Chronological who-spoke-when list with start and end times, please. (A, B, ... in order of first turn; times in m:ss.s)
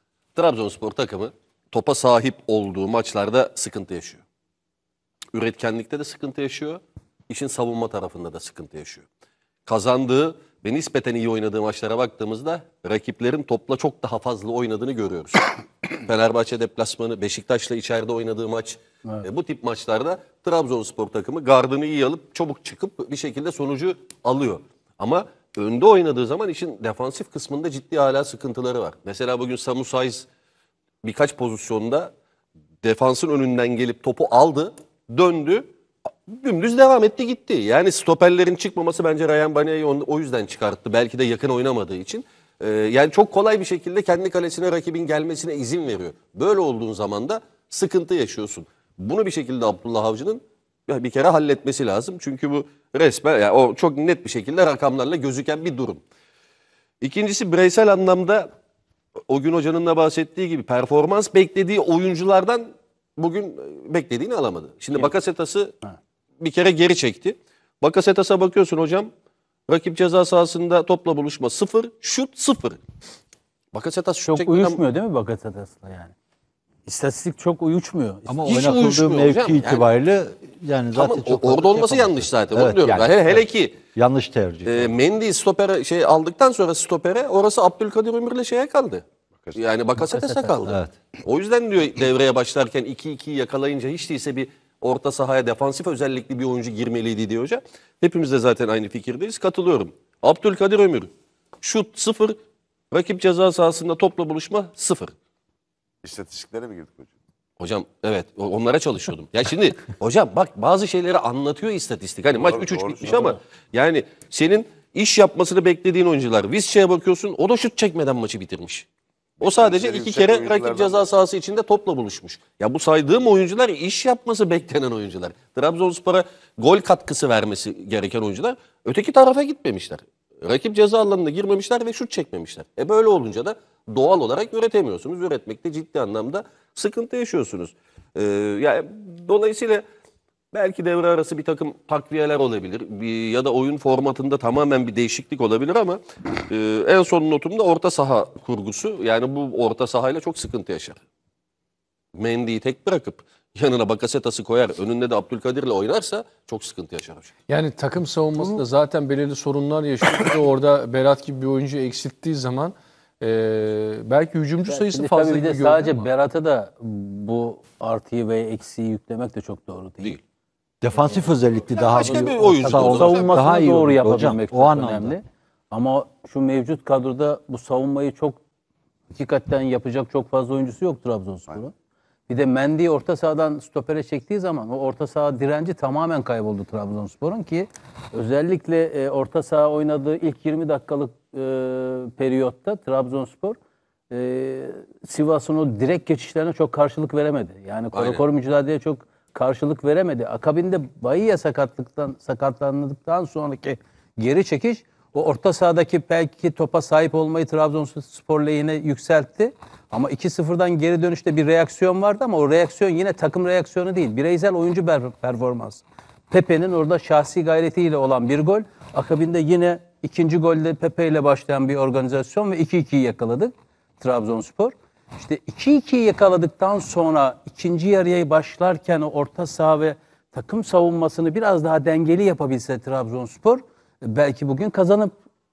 0:00.3-0:04.2 A
0:05.3-0:09.0 A
0:09.7-0:30.3 A
0:31.0-0:32.1 A
0:32.8-0:35.7 A
0:36.3-0:56.0 A
0:57.0-0:58.5 A
0:59.3-1:05.7 A
1:06.4-1:09.1 A
1:09.7-1:12.8 A
1:13.7-1:14.8 A
1:14.2-1:16.1 B
1:16.8-1:18.6 B
1:18.3-1:25.0 C
1:18.4-1:19.9 A
1:20.9-1:23.8 A
1:24.6-1:42.4 A
1:30.0-1:30.7 B
1:30.7-1:30.9 C
1:42.9-1:45.1 A
1:46.0-1:47.1 D
1:47.6-1:58.9 A
1:52.3-1:53.4 D
1:59.4-2:01.1 D
1:59.4-2:19.8 A
2:20.5-2:31.0 A
2:32.1-2:37.3 A
2:37.5-2:46.1 E
2:44.7-2:50.2 B
2:50.8-2:55.1 C
2:50.9-2:58.4 B
2:51.6-2:53.5 A
2:59.1-3:01.7 B
3:02.3-3:13.6 B
3:14.1-3:55.1 B
3:17.9-3:18.2 A